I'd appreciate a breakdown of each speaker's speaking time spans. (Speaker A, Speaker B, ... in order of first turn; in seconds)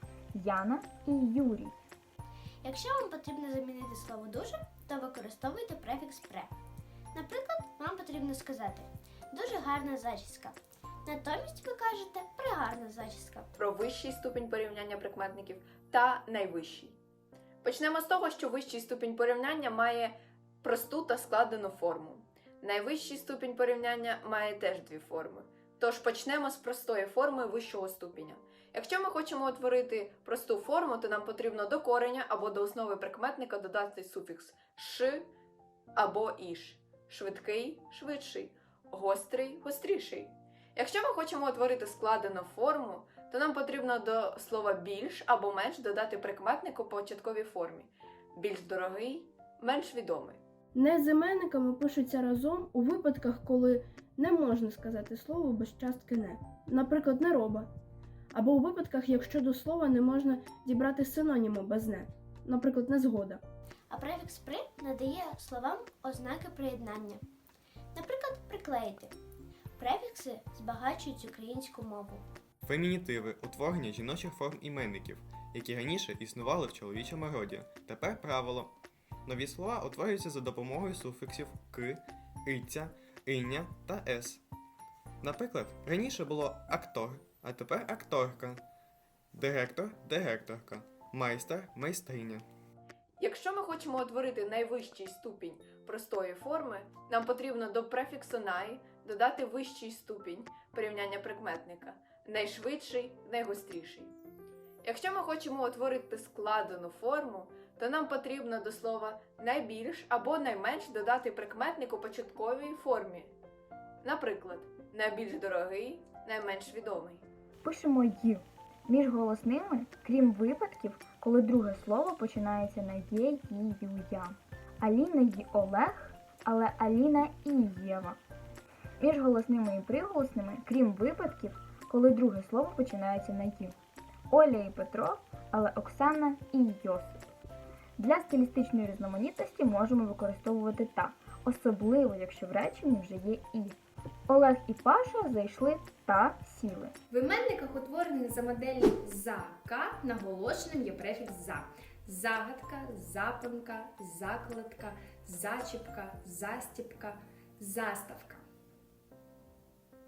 Speaker A: 0.3-1.7, 117.6-128.2, 129.0-133.7, 134.3-137.2, 138.0-143.8, 144.3-146.9
Speaker B: 2.6-6.5, 7.1-13.5, 63.9-67.2, 67.9-69.1, 69.8-72.2
Speaker C: 13.5-17.0, 17.6-35.3, 36.0-50.4, 93.2-104.1, 104.8-113.3, 114.0-117.2
Speaker D: 50.7-57.7, 58.3-63.4
Speaker E: 72.6-84.4, 85.2-88.6, 89.3-92.5
Speaker F: 147.1-158.4